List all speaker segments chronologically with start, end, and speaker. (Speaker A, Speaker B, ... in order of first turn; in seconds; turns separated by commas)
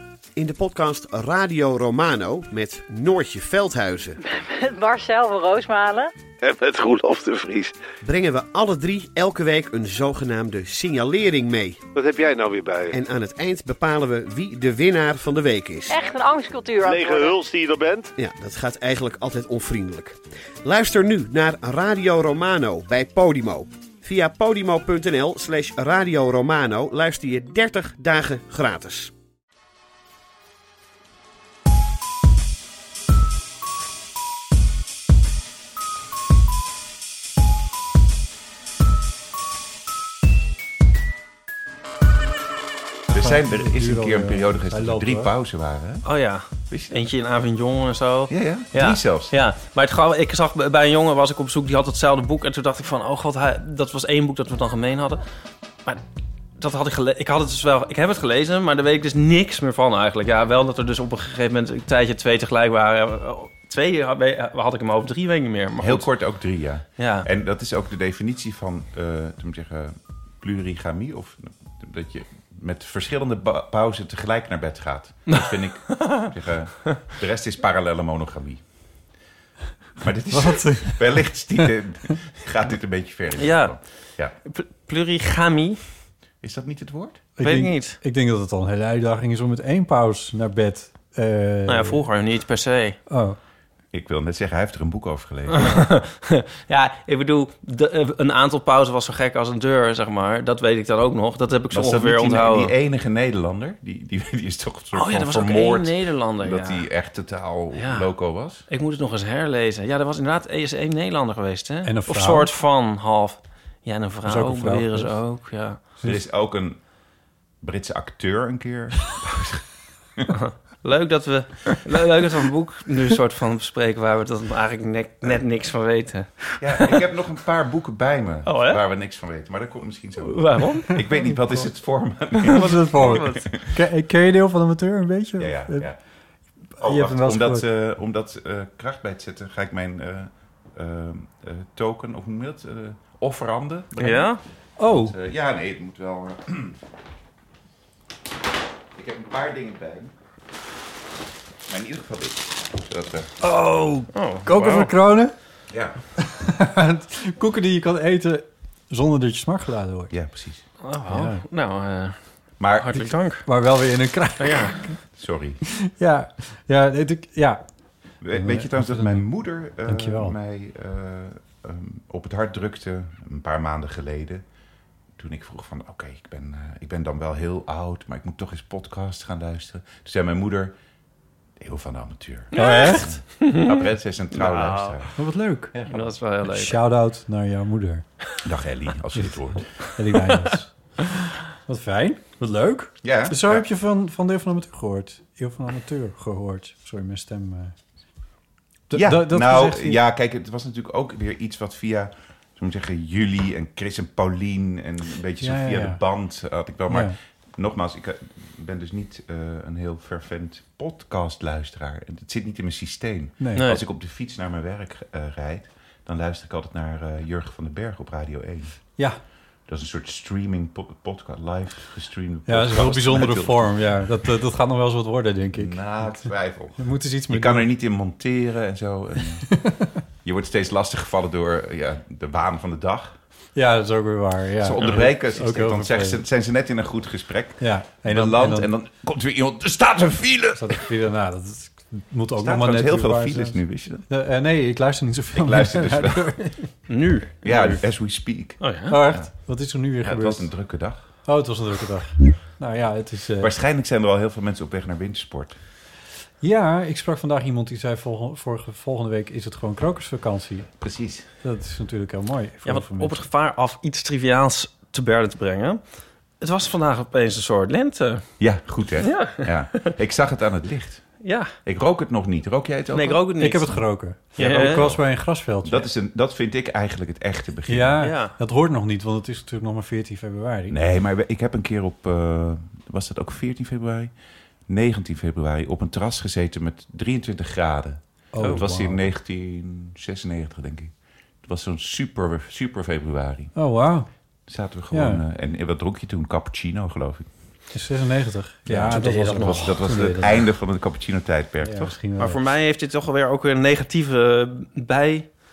Speaker A: 0.3-4.2, Speaker B: 4.2-6.1, Speaker C: 6.4-7.7, Speaker A: 8.0-11.8, Speaker C: 11.9-13.0, Speaker A: 12.9-16.0, Speaker B: 15.9-17.4, Speaker C: 16.8-18.1, Speaker A: 18.2-29.1, Speaker D: 43.1-46.0, Speaker E: 43.1-45.3, Speaker F: 46.0-55.2, Speaker D: 46.7-47.1, Speaker D: 48.3-49.4, Speaker F: 56.6-66.1, Speaker D: 65.8-78.6, Speaker F: 67.0-67.3, Speaker F: 75.3-76.3, Speaker D: 80.0-84.3, Speaker E: 80.3-82.1, Speaker F: 83.4-83.8, Speaker F: 84.5-85.8, Speaker D: 86.4-87.3, Speaker E: 87.4-92.0, Speaker F: 87.4-88.0, Speaker F: 91.7-93.0, Speaker E: 93.1-93.4, Speaker D: 93.9-95.9, Speaker F: 95.5-102.7, Speaker D: 101.7-108.6, Speaker F: 104.9-106.9, Speaker F: 107.7-108.1, Speaker F: 108.7-115.8, Speaker E: 111.8-112.5, Speaker E: 114.2-115.2, Speaker D: 116.0-116.8, Speaker D: 117.6-119.6, Speaker F: 120.3-127.0, Speaker D: 126.6-133.7, Speaker F: 128.4-128.8, Speaker F: 130.2-131.3, Speaker F: 132.4-133.5, Speaker E: 132.4-135.9, Speaker D: 135.4-136.0, Speaker E: 136.8-137.6, Speaker D: 136.8-146.8, Speaker F: 144.0-144.4, Speaker E: 144.8-145.2, Speaker D: 148.9-150.1, Speaker D: 151.7-153.3, Speaker E: 153.4-155.3, Speaker F: 154.1-154.9, Speaker D: 155.7-156.0, Speaker E: 156.2-160.1, Speaker D: 160.1-160.7, Speaker F: 160.8-163.4, Speaker E: 161.1-161.4, Speaker D: 162.6-163.1, Speaker E: 163.0-165.0, Speaker F: 164.4-164.8, Speaker D: 165.1-165.6, Speaker E: 165.8-167.6, Speaker D: 168.2-174.4, Speaker E: 168.3-169.2, Speaker E: 169.8-170.3, Speaker D: 175.2-180.8, Speaker D: 181.6-185.1, Speaker F: 182.5-185.0, Speaker E: 182.6-183.1, Speaker E: 185.2-185.8, Speaker F: 185.8-186.8, Speaker E: 186.4-188.1, Speaker D: 188.4-189.9, Speaker E: 189.9-190.7, Speaker E: 191.7-197.8, Speaker D: 193.0-193.7, Speaker E: 198.9-200.0, Speaker D: 198.9-218.7, Speaker E: 205.4-206.0, Speaker E: 206.9-207.2, Speaker E: 213.4-213.6, Speaker F: 213.6-213.8, Speaker D: 219.7-224.3, Speaker E: 222.5-227.7, Speaker D: 225.5-229.6, Speaker E: 229.5-229.9, Speaker D: 230.2-233.2, Speaker E: 233.5-236.2, Speaker D: 234.6-240.9, Speaker E: 237.6-238.7, Speaker E: 240.6-246.7, Speaker D: 242.4-244.1, Speaker D: 245.3-246.6, Speaker F: 246.9-247.8, Speaker D: 247.4-249.3, Speaker F: 248.6-248.9, Speaker E: 248.9-250.5, Speaker D: 250.0-251.1, Speaker E: 251.2-253.5, Speaker D: 253.4-255.6, Speaker E: 256.4-260.7, Speaker D: 260.8-261.3, Speaker E: 261.4-263.2, Speaker F: 262.6-265.8, Speaker F: 266.4-268.3, Speaker D: 268.4-273.2, Speaker F: 269.0-269.9, Speaker F: 271.2-271.5, Speaker F: 272.9-273.8, Speaker E: 273.4-275.9, Speaker F: 274.4-274.9, Speaker D: 274.4-275.0, Speaker D: 275.6-278.0, Speaker E: 277.7-280.8, Speaker F: 278.0-278.3, Speaker D: 280.7-284.1, Speaker D: 284.7-293.5, Speaker E: 288.3-289.1, Speaker F: 288.4-288.6, Speaker E: 293.5-294.1, Speaker D: 294.5-297.3, Speaker E: 294.9-295.2, Speaker E: 297.7-300.4, Speaker D: 298.6-301.9, Speaker F: 298.9-300.4, Speaker E: 301.6-302.4, Speaker F: 302.2-305.3